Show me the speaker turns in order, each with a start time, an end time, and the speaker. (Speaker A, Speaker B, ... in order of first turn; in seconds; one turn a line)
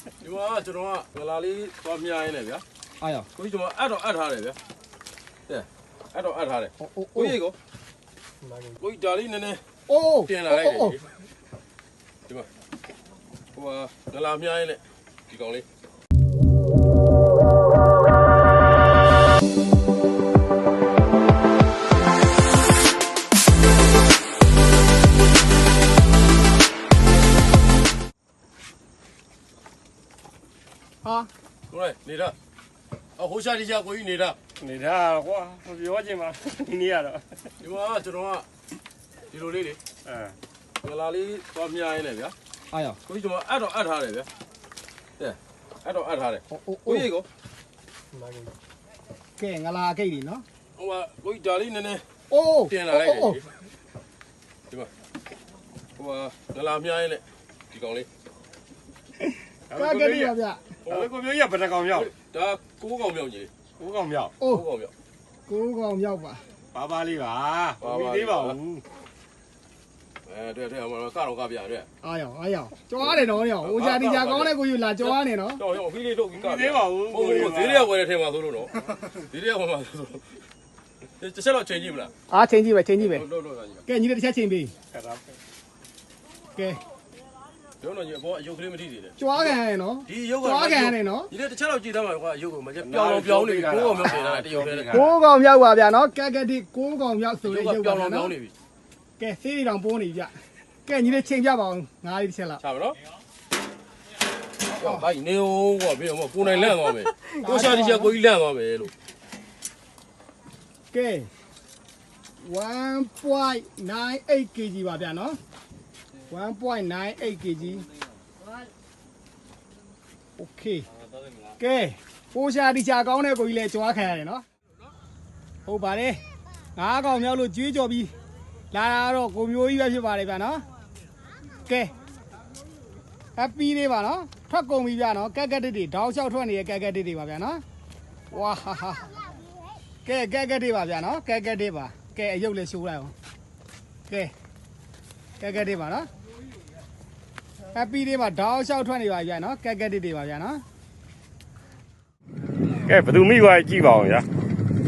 Speaker A: 0.2-2.6
Speaker B: 3.0-3.3
Speaker A: 3.3-4.6
Speaker A: 5.5-7.6
Speaker B: 6.8-7.4
Speaker A: 8.7-9.6
Speaker B: 9.9-10.9
Speaker A: 10.2-11.1
Speaker A: 13.5-15.7
Speaker B: 31.0-31.3
Speaker A: 31.7-32.3
Speaker A: 33.2-34.4
Speaker C: 34.6-37.2
Speaker A: 37.6-38.5
Speaker A: 39.3-39.8
Speaker C: 40.0-40.3
Speaker A: 40.8-42.3
Speaker B: 42.7-43.0
Speaker A: 43.1-44.3
Speaker A: 45.2-47.3
Speaker B: 46.5-47.1
Speaker B: 49.4-50.5
Speaker A: 50.8-52.0
Speaker B: 52.3-53.4
Speaker A: 52.7-53.5
Speaker A: 56.0-58.1
Speaker B: 59.2-60.6
Speaker C: 59.7-60.0
Speaker A: 59.8-60.3
Speaker A: 60.9-61.1
Speaker C: 60.9-62.1
Speaker A: 61.9-63.5
Speaker C: 63.8-64.3
Speaker B: 64.4-64.7
Speaker A: 64.4-64.9
Speaker B: 65.5-66.4
Speaker C: 66.7-68.8
Speaker A: 67.8-68.6
Speaker A: 70.3-71.9
Speaker B: 72.0-75.6
Speaker A: 73.0-80.2
Speaker C: 76.4-77.9
Speaker A: 81.2-82.1
Speaker B: 82.3-83.3
Speaker A: 83.0-83.9
Speaker B: 83.9-84.7
Speaker C: 84.9-85.2
Speaker B: 86.5-86.8
Speaker A: 87.8-95.1
Speaker B: 89.2-91.3
Speaker C: 92.8-95.1
Speaker B: 94.9-98.3
Speaker A: 97.5-98.5
Speaker B: 99.2-100.3
Speaker B: 100.9-102.6
Speaker A: 102.6-103.0
Speaker A: 104.7-108.9
Speaker B: 104.8-105.1
Speaker B: 107.4-108.2
Speaker B: 110.9-111.3
Speaker B: 112.4-115.4
Speaker B: 116.3-117.9
Speaker B: 120.4-120.9
Speaker B: 121.6-124.4
Speaker B: 125.7-126.2
Speaker B: 126.8-128.1
Speaker B: 128.7-130.6
Speaker B: 131.7-131.9
Speaker B: 133.3-137.6
Speaker B: 138.3-139.3
Speaker B: 140.0-143.1
Speaker B: 144.1-144.3
Speaker B: 145.4-146.1
Speaker B: 147.7-150.6
Speaker C: 152.8-154.2